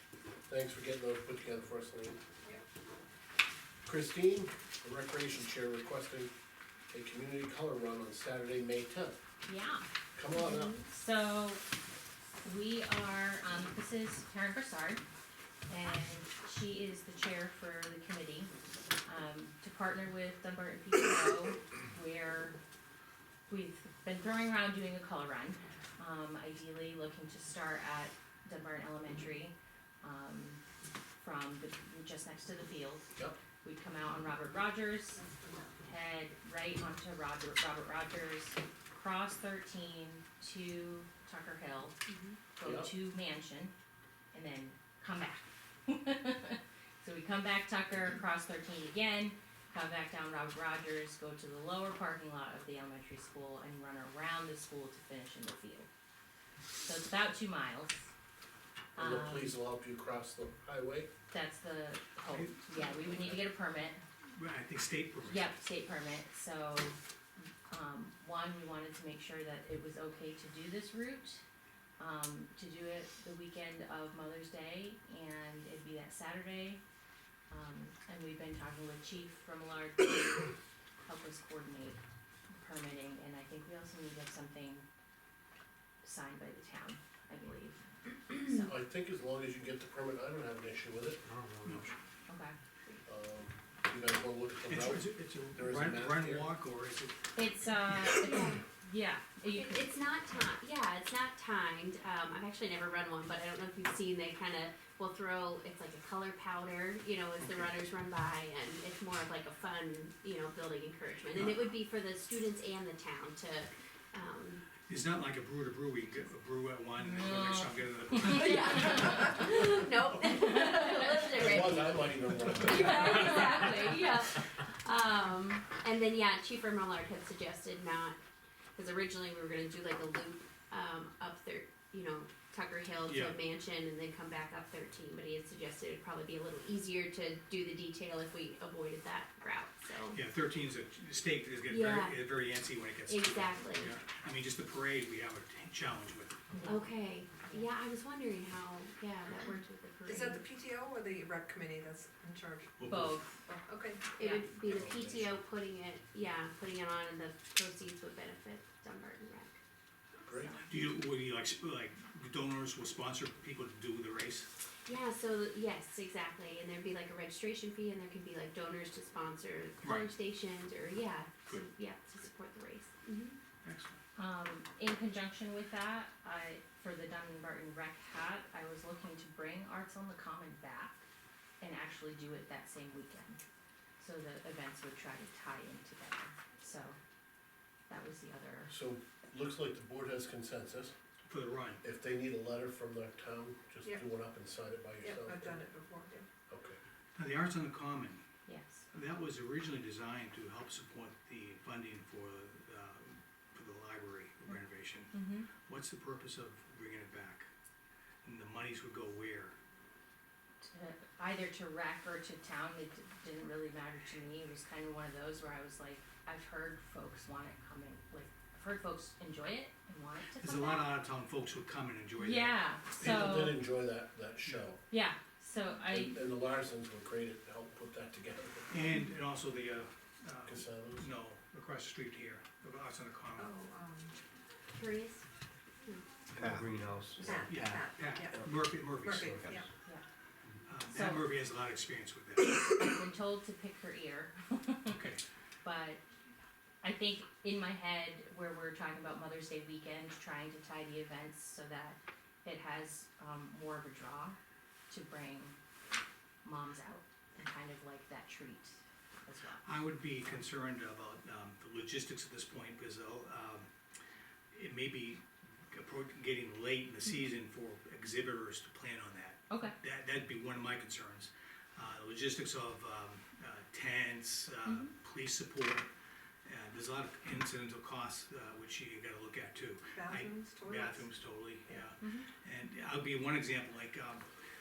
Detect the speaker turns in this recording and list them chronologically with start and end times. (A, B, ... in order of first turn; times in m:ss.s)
0:00.5-0:02.2 A
0:03.9-0:06.3 A
0:06.9-0:09.2 A
0:09.5-0:09.8 B
0:10.2-0:10.8 A
0:10.4-0:10.8 C
0:10.9-0:11.6 B
0:12.4-0:15.0 B
0:15.7-0:18.5 B
0:19.0-0:22.6 B
0:23.5-0:30.6 B
0:31.2-0:33.1 B
0:33.6-0:35.2 B
0:35.8-0:42.0 B
0:42.1-0:42.4 C
0:42.6-0:43.7 B
0:42.6-0:42.9 A
0:44.3-0:55.9 B
0:56.8-0:58.0 B
0:59.0-0:59.6 B
0:59.0-1:01.1 A
1:01.3-1:04.0 B
1:02.3-1:03.4 D
1:04.3-1:05.5 D
1:05.2-1:07.0 B
1:07.7-1:11.4 B
1:12.0-1:16.8 B
1:17.5-1:20.5 B
1:21.1-1:22.0 B
1:22.6-1:24.9 B
1:26.0-1:28.7 B
1:28.6-1:31.9 A
1:31.4-1:31.6 E
1:32.3-1:32.5 B
1:33.1-1:36.5 A
1:34.7-1:37.3 D
1:37.4-1:39.9 B
1:37.9-1:38.4 D
1:38.2-1:38.6 C
1:39.5-1:54.6 C
1:47.4-1:47.7 D
1:54.9-1:59.2 D
1:57.0-1:59.5 B
1:58.2-2:08.2 C
2:00.7-2:00.9 B
2:01.3-2:03.7 A
2:08.8-2:20.2 C
2:13.0-2:13.4 D
2:20.1-2:26.6 D
2:21.7-2:22.2 C
2:23.1-2:24.0 C
2:26.5-2:27.7 B
2:26.6-2:30.4 C
2:30.0-2:32.9 F
2:32.8-2:33.2 D
2:32.8-2:34.5 B
2:33.7-2:34.1 F
2:34.2-2:39.6 C
2:34.6-2:35.3 A
2:40.2-2:40.6 A
2:40.7-2:44.5 D
2:44.9-2:53.4 C
2:49.8-2:50.1 D
2:53.6-2:54.0 D
2:54.2-3:01.0 B
3:01.6-3:03.4 B
3:04.0-3:07.0 B
3:07.9-3:08.7 B
3:08.7-3:10.9 A
3:11.2-3:11.8 D
3:11.8-3:15.6 A
3:15.0-3:16.3 F
3:16.5-3:16.8 A
3:17.2-3:18.2 D
3:18.5-3:18.8 B
3:18.9-3:27.5 D
3:25.1-3:25.5 B
3:28.2-3:29.6 D
3:30.6-3:40.9 B
3:40.4-3:43.5 D
3:42.2-3:43.6 B
3:43.0-3:44.8 A
3:44.4-3:44.8 D
3:44.9-3:46.2 B
3:45.8-3:48.8 A
3:48.7-3:53.5 D
3:50.5-3:51.1 A
3:53.4-3:54.2 F
3:54.7-3:55.2 C
3:56.3-3:59.6 E
3:57.1-3:59.7 F
3:57.5-3:59.6 D
4:00.7-4:02.6 D
4:00.9-4:01.3 B
4:02.6-4:04.9 B
4:04.9-4:05.2 D
4:05.6-4:06.0 B
4:06.8-4:14.4 B
4:14.9-4:15.6 B
4:16.4-4:19.6 B
4:19.6-4:23.7 D
4:24.5-4:35.9 D
4:29.5-4:29.8 B
4:34.7-4:34.9 B
4:36.4-4:44.3 D
4:39.9-4:41.9 F
4:42.0-4:42.3 B